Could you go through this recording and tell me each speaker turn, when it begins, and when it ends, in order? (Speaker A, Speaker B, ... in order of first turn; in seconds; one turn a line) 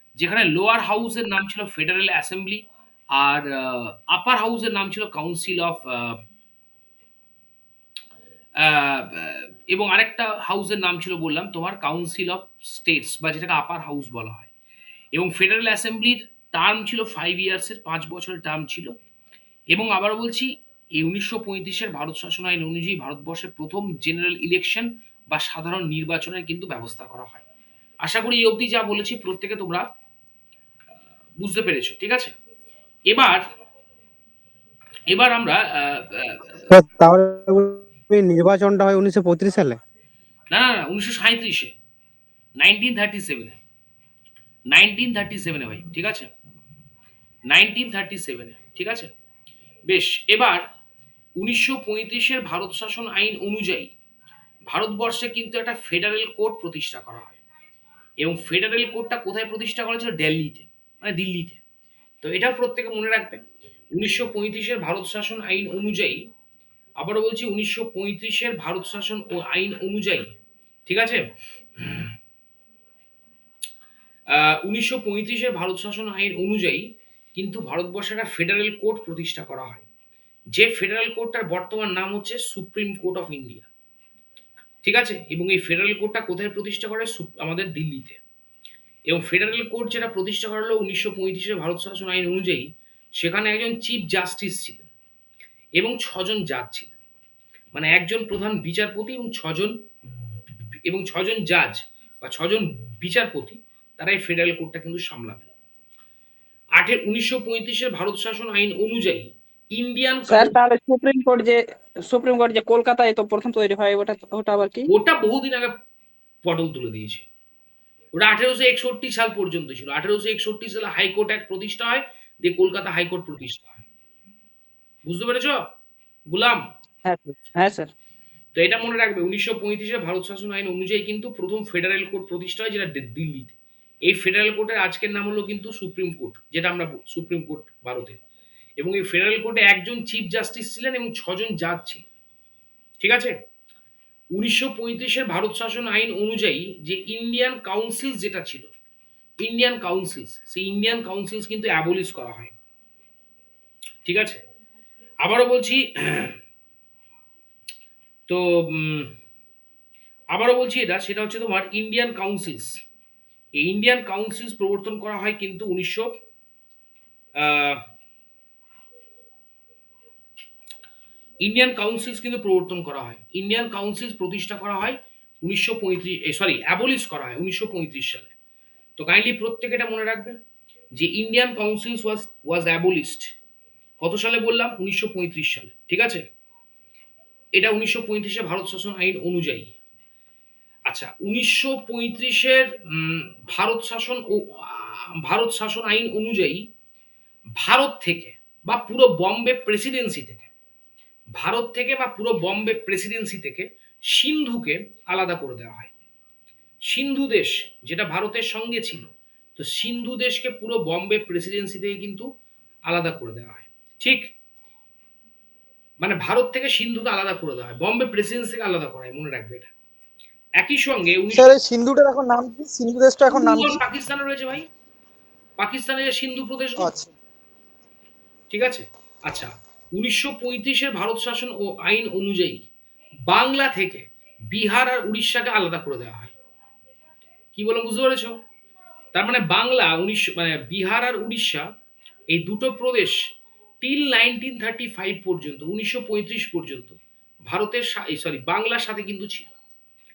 Speaker A: 0.2-2.6
Speaker A: 3.1-6.2
Speaker A: 8.6-14.5
Speaker A: 15.1-18.9
Speaker A: 19.7-27.4
Speaker A: 28.0-29.8
Speaker A: 31.4-32.3
Speaker A: 33.1-33.4
Speaker A: 35.1-36.7
Speaker B: 36.7-39.8
Speaker A: 40.5-41.7
Speaker A: 42.6-43.6
Speaker A: 44.7-46.3
Speaker A: 47.5-49.1
Speaker A: 49.9-50.6
Speaker A: 51.4-53.9
Speaker A: 54.7-57.4
Speaker A: 58.2-61.6
Speaker A: 62.2-63.4
Speaker A: 63.9-66.2
Speaker A: 67.0-70.3
Speaker A: 70.9-71.2
Speaker A: 71.8-72.1
Speaker A: 74.3-79.8
Speaker A: 80.5-83.7
Speaker A: 84.8-88.2
Speaker A: 89.1-94.9
Speaker A: 95.8-97.0
Speaker A: 97.7-99.8
Speaker A: 100.9-105.5
Speaker A: 106.8-110.6
Speaker C: 110.3-114.9
Speaker A: 114.9-115.7
Speaker A: 116.4-117.2
Speaker A: 118.2-123.8
Speaker A: 125.1-125.6
Speaker A: 126.3-126.6
Speaker C: 127.1-127.9
Speaker A: 128.6-138.2
Speaker A: 138.8-142.1
Speaker A: 143.0-143.3
Speaker A: 144.3-148.7
Speaker A: 149.4-152.5
Speaker A: 154.1-154.4
Speaker A: 155.2-156.3
Speaker A: 158.3-159.1
Speaker A: 160.3-162.7
Speaker A: 163.6-166.1
Speaker A: 167.4-167.8
Speaker A: 171.4-178.3
Speaker A: 179.0-180.4
Speaker A: 181.0-183.3
Speaker A: 184.0-186.2
Speaker A: 187.6-189.7
Speaker A: 190.9-196.6
Speaker A: 197.6-200.5
Speaker A: 201.4-205.9
Speaker A: 206.9-212.3
Speaker A: 212.9-214.2
Speaker A: 216.0-219.7
Speaker A: 220.6-221.5
Speaker D: 221.3-223.8
Speaker A: 223.3-224.7
Speaker A: 225.6-226.9
Speaker D: 226.8-227.1
Speaker A: 228.5-232.6
Speaker A: 233.3-236.3
Speaker A: 237.6-238.4
Speaker A: 239.2-241.7
Speaker A: 242.3-243.2
Speaker A: 243.8-249.5